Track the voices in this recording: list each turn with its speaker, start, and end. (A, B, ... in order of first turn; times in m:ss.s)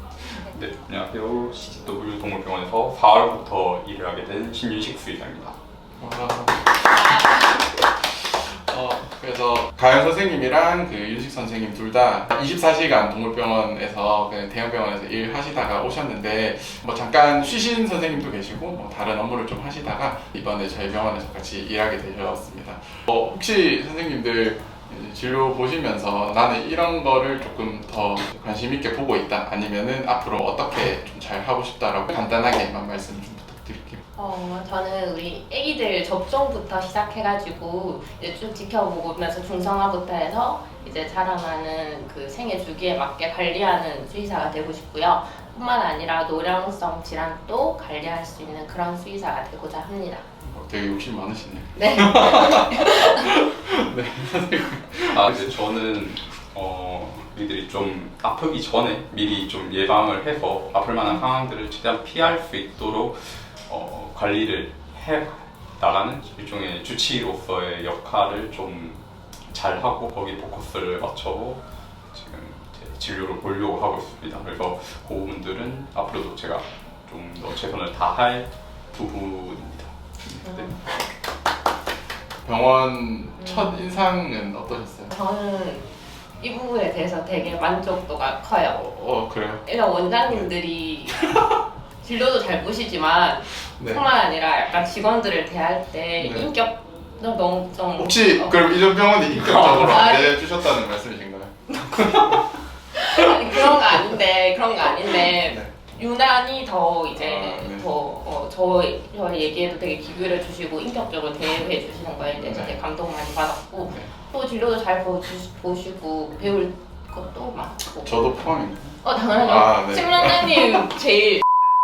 0:00.4-0:05.6 A
0:06.0-0:34.0 B
0:34.2-0:50.2 C
0:50.4-0:55.6 B
0:51.7-0:53.3 C
0:55.1-1:11.6 A
1:12.1-1:20.6 A
1:20.4-1:20.8 C
1:22.4-1:25.1 B
1:23.4-1:23.8 C
1:25.1-1:25.8 C
1:26.4-1:28.8 C
1:28.6-1:29.6 B
1:29.6-1:31.3 C
1:31.3-1:31.6 B
1:32.0-1:38.8 C
1:33.8-1:34.0 B
1:36.2-1:36.5 B
1:38.0-1:42.4 B
1:39.3-1:40.4 C
1:41.8-1:58.2 C
1:43.2-1:43.9 B
1:45.1-1:45.7 B
1:47.1-1:47.9 B
1:52.4-1:52.7 B
1:58.0-2:00.8 B
1:59.0-2:01.4 C